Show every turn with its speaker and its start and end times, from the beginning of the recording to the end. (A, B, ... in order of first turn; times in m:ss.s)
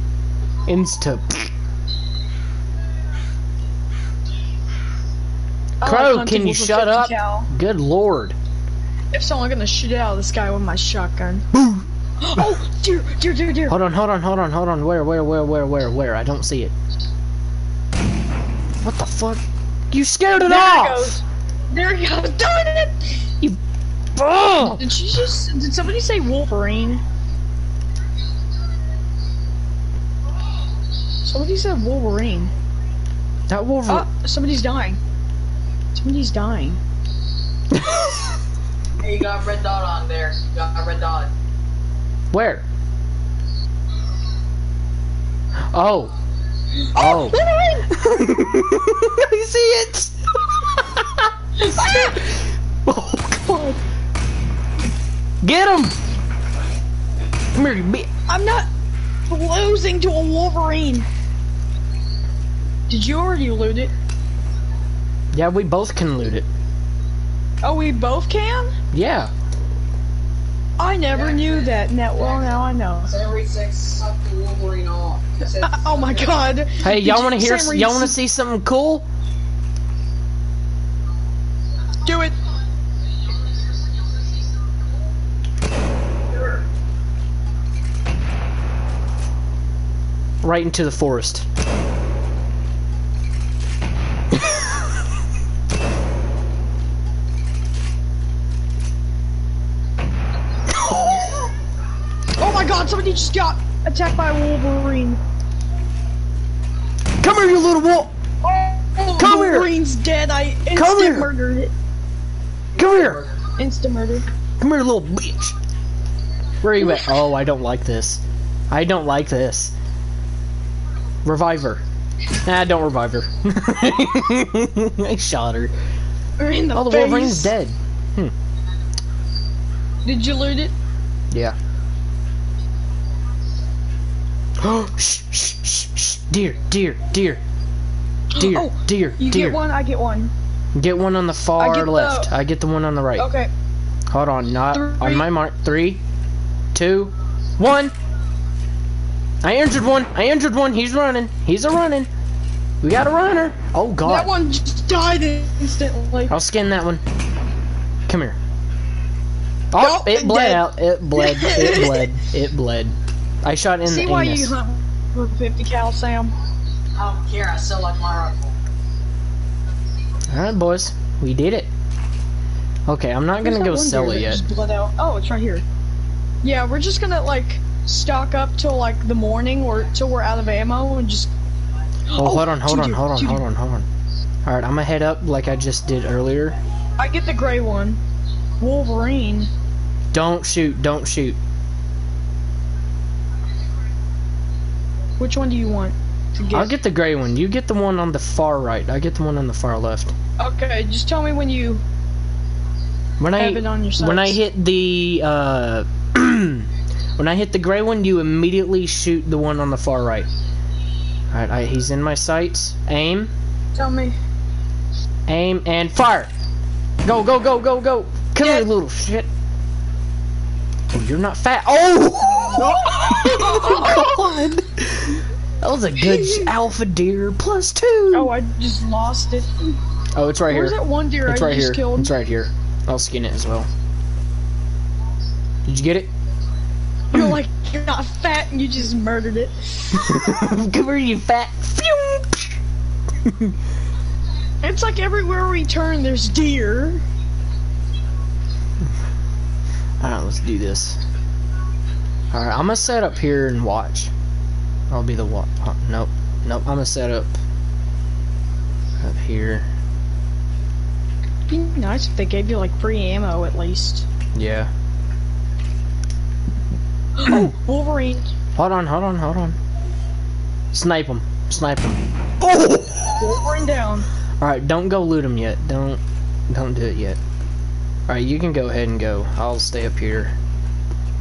0:00.7-0:01.5 A
0:05.8-0:07.5 B
0:05.8-0:08.4 A
0:09.1-0:11.5 B
0:11.5-0:11.8 A
0:12.2-0:13.8 B
0:13.7-0:16.7 A
0:18.8-0:21.2 A
0:20.4-0:23.2 B
0:24.1-0:24.9 A
0:24.6-0:27.0 B
0:31.2-0:32.5 B
0:33.5-0:34.1 A
0:33.9-0:35.0 B
0:35.9-0:36.8 B
0:37.7-0:38.1 A
0:39.0-0:41.3 C
0:42.3-0:42.6 A
0:45.6-0:46.1 A
0:46.9-0:47.9 B
0:46.9-0:50.2 A
0:50.7-0:53.5 A
0:51.6-0:52.2 B
0:53.4-0:53.8 B
0:55.4-0:56.0 A
0:57.5-0:58.1 A
0:58.3-0:58.7 B
0:59.3-1:01.1 B
1:02.9-1:03.9 B
1:05.3-1:06.5 A
1:07.6-1:08.7 B
1:08.9-1:09.3 A
1:10.8-1:13.2 B
1:11.1-1:16.4 C
1:15.6-1:18.1 B
1:16.8-1:19.1 A
1:22.0-1:22.4 B
1:30.4-1:31.4 A
1:42.4-1:45.2 B
1:47.2-1:48.1 A
1:48.4-1:51.7 B
1:49.2-1:49.7 A
1:50.7-1:51.3 A
1:52.8-1:53.3 A
1:53.6-1:54.2 B
1:54.6-1:55.6 A
1:56.6-1:59.7 A
1:56.8-1:57.1 B
2:01.2-2:01.8 A
2:02.3-2:05.7 A
2:06.4-2:07.5 B
2:06.7-2:08.3 A
2:10.0-2:10.7 B
2:14.6-2:17.4 A
2:18.3-2:20.3 B
2:18.4-2:19.6 A
2:20.7-2:23.3 A
2:21.6-2:22.3 B
2:23.2-2:23.5 B
2:24.1-2:26.0 A
2:24.7-2:25.2 B
2:26.7-2:27.9 A
2:29.4-2:32.1 A
2:32.8-2:34.3 A
2:34.0-2:36.3 B
2:36.3-2:37.0 A
2:38.1-2:38.4 A
2:39.7-2:44.5 A
2:39.7-2:42.1 B
2:43.8-2:46.3 B
2:47.0-2:48.5 C
2:50.3-2:51.7 A
2:52.9-2:54.4 A
2:53.4-2:55.6 B
2:56.4-3:01.3 B
3:02.1-3:03.4 B
3:02.2-3:03.9 A
3:04.4-3:06.6 A
3:07.0-3:08.0 B
3:08.6-3:09.5 B
3:10.1-3:11.4 A
3:15.2-3:16.8 B
3:16.5-3:20.1 A
3:20.4-3:21.8 B
3:23.2-3:30.3 A
3:23.3-3:24.4 B
3:31.3-3:33.3 A
3:33.7-3:34.2 B
3:35.3-3:36.3 A
3:37.0-3:39.3 A
3:38.4-3:38.7 B
3:40.9-3:48.3 A
3:42.5-3:44.2 B
3:46.0-3:46.5 B
3:48.1-3:49.8 B
3:50.1-3:53.7 A
3:50.5-3:52.1 B
3:55.6-3:56.1 A
3:57.1-4:00.4 B
3:59.9-4:02.6 A
4:03.2-4:03.6 A
4:04.6-4:07.0 B
4:10.0-4:11.0 A
4:12.3-4:14.1 A
4:14.9-4:17.4 A
4:19.0-4:19.7 A
4:21.5-4:24.1 B
4:24.3-4:24.7 A
4:27.1-4:28.3 B
4:28.6-4:29.6 A
4:30.7-4:33.2 A
4:33.1-4:34.1 B
4:34.4-4:37.2 A
4:38.1-4:40.3 A